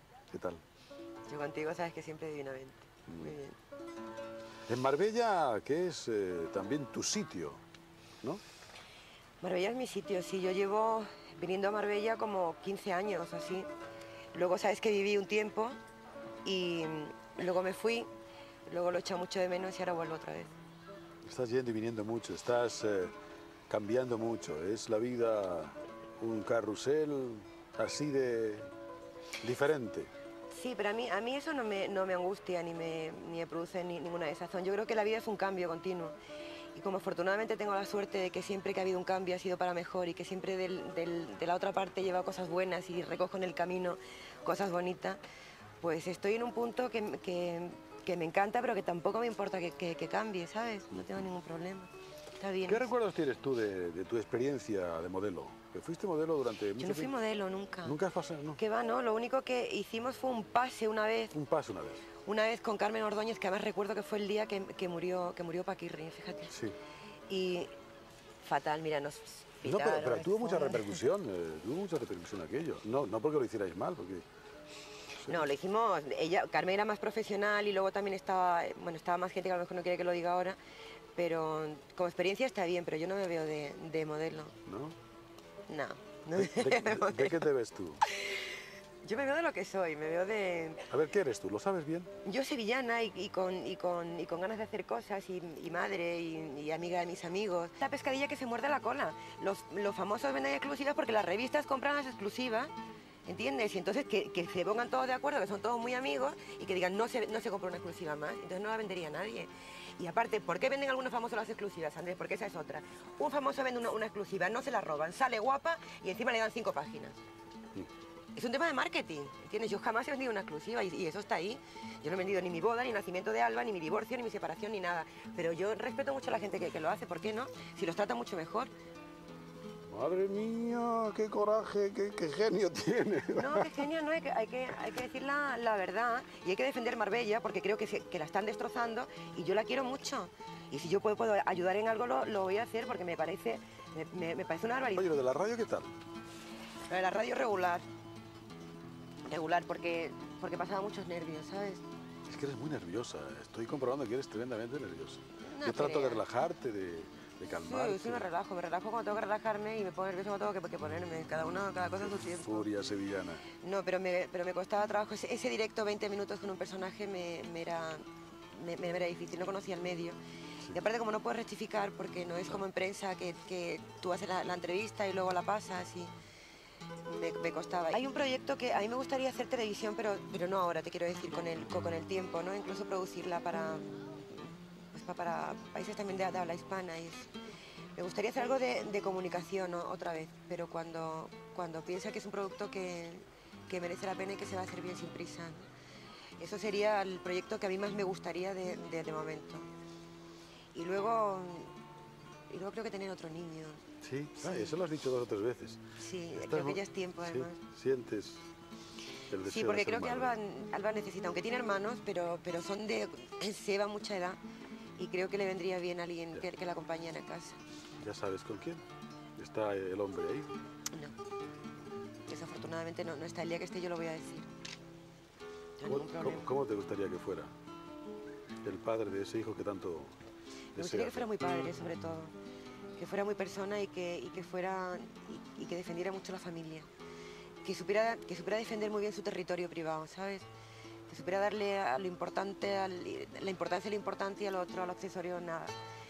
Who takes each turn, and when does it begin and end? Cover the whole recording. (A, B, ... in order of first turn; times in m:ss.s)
0:00.3-0:00.6 A
0:01.3-0:03.6 B
0:03.1-0:03.4 A
0:04.7-0:07.6 A
0:09.4-0:13.7 B
0:14.3-0:15.8 B
0:16.4-0:18.1 B
0:18.7-0:20.5 B
0:21.2-0:23.1 A
0:23.7-0:28.7 A
0:29.4-0:30.1 A
0:30.5-0:36.2 B
0:36.8-0:45.2 B
0:45.8-0:52.9 B
0:52.7-0:57.1 A
0:56.8-0:58.0 B
0:57.8-0:58.6 A
0:58.6-1:01.4 B
1:01.3-1:02.1 A
1:02.2-1:06.5 B
1:06.5-1:06.8 A
1:07.3-1:07.7 B
1:08.4-1:11.0 B
1:09.6-1:14.2 A
1:15.2-1:15.5 A
1:15.3-1:20.6 B
1:21.2-1:24.6 B
1:24.7-1:25.0 A
1:25.7-1:27.5 B
1:26.4-1:28.0 A
1:28.0-1:30.9 B
1:30.9-1:32.1 A
1:32.2-1:42.7 B
1:43.3-1:57.2 B
1:58.4-2:08.7 B
2:09.9-2:13.8 A
2:13.3-2:25.1 B
2:24.9-2:25.9 A
2:26.9-2:27.9 B
2:29.3-2:31.8 B
2:32.3-2:38.3 A
2:35.4-2:36.3 B
2:37.5-2:42.7 B
2:42.0-2:43.5 A
2:43.6-2:50.2 B
2:50.7-2:56.1 B
2:57.0-3:07.3 B
3:08.0-3:15.7 B
3:16.4-3:19.7 B
3:20.7-3:21.7 B
3:22.5-3:23.8 B
3:24.0-3:28.4 A
3:24.4-3:24.8 B
3:26.0-3:27.6 B
3:29.3-3:30.3 A
3:29.4-3:34.4 B
3:35.0-3:37.6 B
3:38.0-3:38.8 A
3:39.4-3:40.5 A
3:42.3-3:44.5 B
3:45.8-3:46.5 B
3:45.9-3:47.5 A
3:48.6-3:50.2 A
3:50.8-3:51.3 A
3:50.8-3:52.4 B
3:53.0-3:56.9 B
3:57.6-4:00.5 B
4:01.1-4:05.8 B